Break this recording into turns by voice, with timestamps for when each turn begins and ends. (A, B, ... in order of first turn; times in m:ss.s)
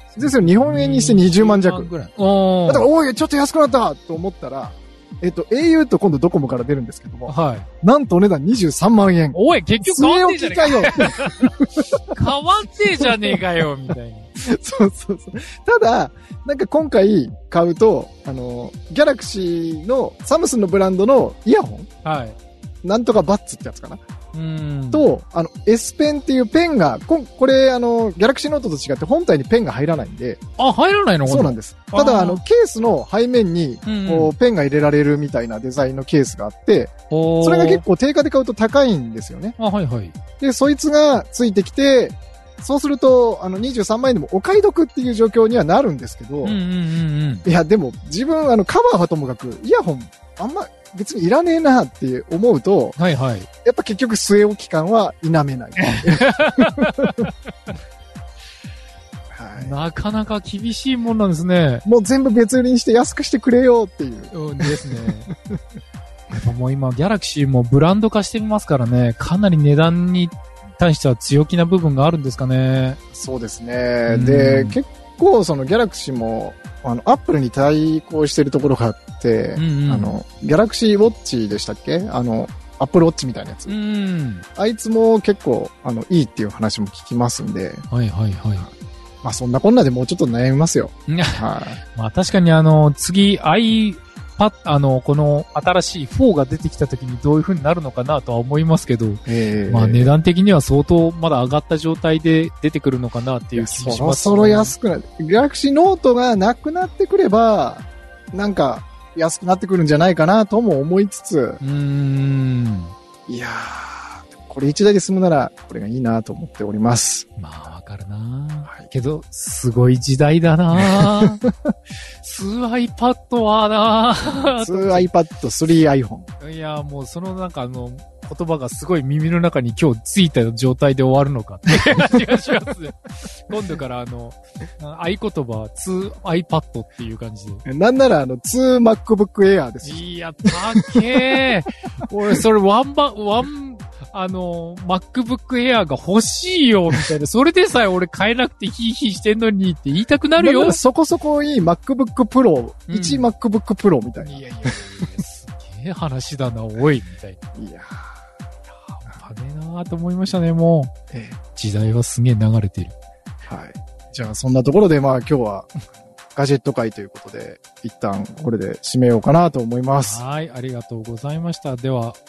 0:00.1-0:02.9 A
0:00.2-0:01.9 B
0:02.7-0:12.2 B
0:07.3-0:07.7 A
0:09.3-0:11.5 A
0:12.1-0:14.3 A
0:14.4-0:21.9 B
0:22.0-0:22.4 A
0:22.8-0:24.0 B
0:24.3-0:25.1 A
0:24.9-0:30.4 B
0:30.6-0:32.4 A
0:31.3-0:39.6 B
0:33.8-0:34.3 A
0:37.1-0:37.8 A
0:39.6-0:40.2 A
0:40.4-0:46.6 B
0:46.4-0:47.4 A
0:47.4-0:53.0 B
0:53.0-0:53.5 A
0:53.6-0:57.2 B
0:55.8-0:57.3 A
0:59.3-0:59.7 B
0:59.6-1:01.8 A
1:01.8-1:05.6 B
1:04.3-1:05.3 A
1:06.3-1:13.0 A
1:13.1-1:23.7 B
1:14.1-1:14.8 A
1:19.6-1:20.1 A
1:23.7-1:24.4 A
1:24.6-1:27.8 B
1:27.9-1:28.7 A
1:29.2-1:31.8 B
1:31.1-1:44.7 A
1:39.3-1:40.1 B
1:43.5-1:51.6 B
1:51.6-1:52.9 A
1:53.3-1:57.2 B
1:57.4-2:01.4 A
2:00.8-2:01.5 B
2:02.2-2:05.1 A
2:04.2-2:06.3 B
2:06.4-2:17.6 A
2:17.6-2:20.9 B
2:19.8-2:30.8 A
2:30.4-2:34.8 B
2:32.9-2:33.3 A
2:34.2-2:37.4 A
2:37.5-2:38.1 B
2:38.8-2:40.9 A
2:41.1-2:41.4 B
2:41.5-2:42.9 A
2:43.4-2:45.7 B
2:46.3-2:50.2 B
2:50.0-2:52.2 A